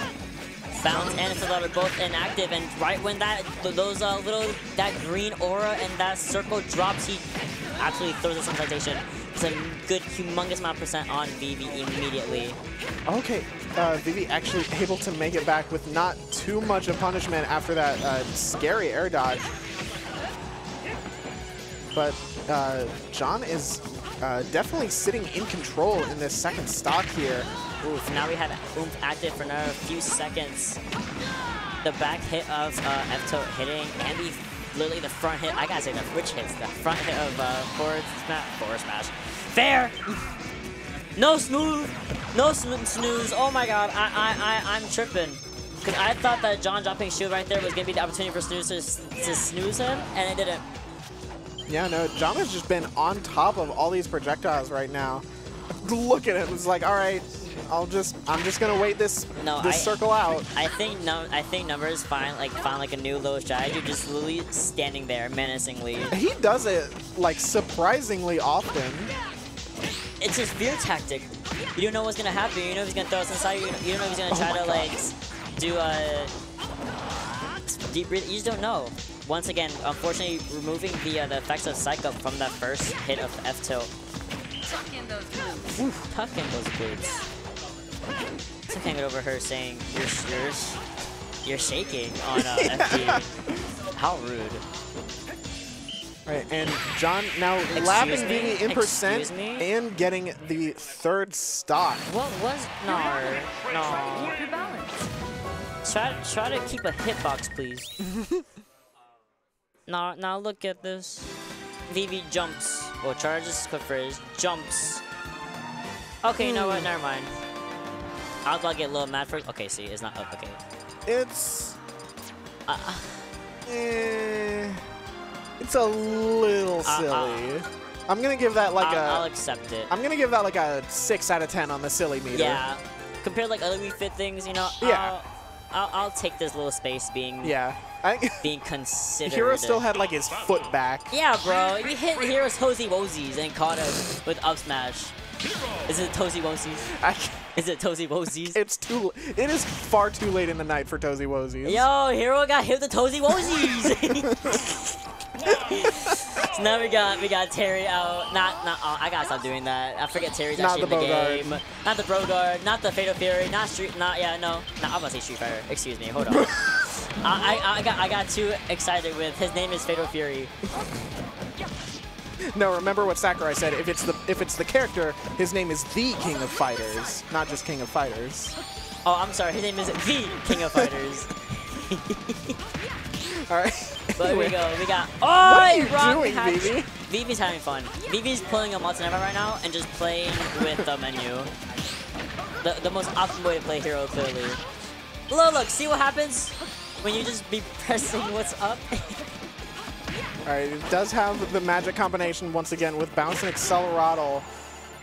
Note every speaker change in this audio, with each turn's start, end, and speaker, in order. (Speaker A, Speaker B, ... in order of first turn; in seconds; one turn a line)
Speaker A: 0.7-12.6
Speaker B: 13.1-19.5
Speaker B: 21.9-27.5
Speaker A: 27.8-30.8
Speaker A: 31.8-40.0
Speaker A: 41.2-50.6
Speaker B: 51.7-55.2
Speaker B: 55.8-60.5
Speaker A: 59.4-60.0
Speaker A: 60.5-66.2
Speaker B: 66.1-69.1
Speaker A: 70.2-76.3
Speaker B: 74.3-75.0
Speaker A: 77.5-83.9
Speaker A: 85.6-87.3
Speaker A: 88.7-90.8
Speaker A: 91.5-93.3
Speaker B: 92.4-93.2
Speaker A: 94.0-94.6
Speaker B: 96.3-102.0
Speaker A: 97.7-99.7
Speaker A: 102.1-104.4
Speaker A: 105.8-107.9
Speaker A: 109.9-111.3
Speaker A: 111.9-115.0
Speaker A: 116.2-117.3
Speaker B: 116.4-116.9
Speaker A: 118.5-120.6
Speaker B: 121.1-121.8
Speaker A: 122.7-123.3
Speaker B: 123.7-124.8
Speaker B: 125.6-129.3
Speaker A: 126.8-127.5
Speaker A: 128.8-129.9
Speaker B: 129.9-132.6
Speaker A: 132.3-137.6
Speaker B: 134.8-135.2
Speaker B: 137.4-138.5
Speaker A: 138.4-139.9
Speaker B: 139.2-141.1
Speaker A: 141.1-145.1
Speaker A: 145.9-147.0
Speaker B: 147.0-147.4
Speaker A: 147.6-148.6
Speaker B: 148.6-151.8
Speaker A: 151.6-154.9
Speaker B: 154.2-154.6
Speaker A: 155.4-166.5
Speaker B: 155.8-156.2
Speaker B: 160.6-161.6
Speaker B: 166.3-166.8
Speaker A: 167.2-170.5
Speaker B: 172.5-178.6
Speaker A: 179.1-182.6
Speaker B: 180.6-180.9
Speaker B: 183.2-184.6
Speaker A: 184.2-191.5
Speaker B: 185.4-186.9
Speaker A: 192.6-194.6
Speaker A: 195.3-199.2
Speaker B: 200.5-204.5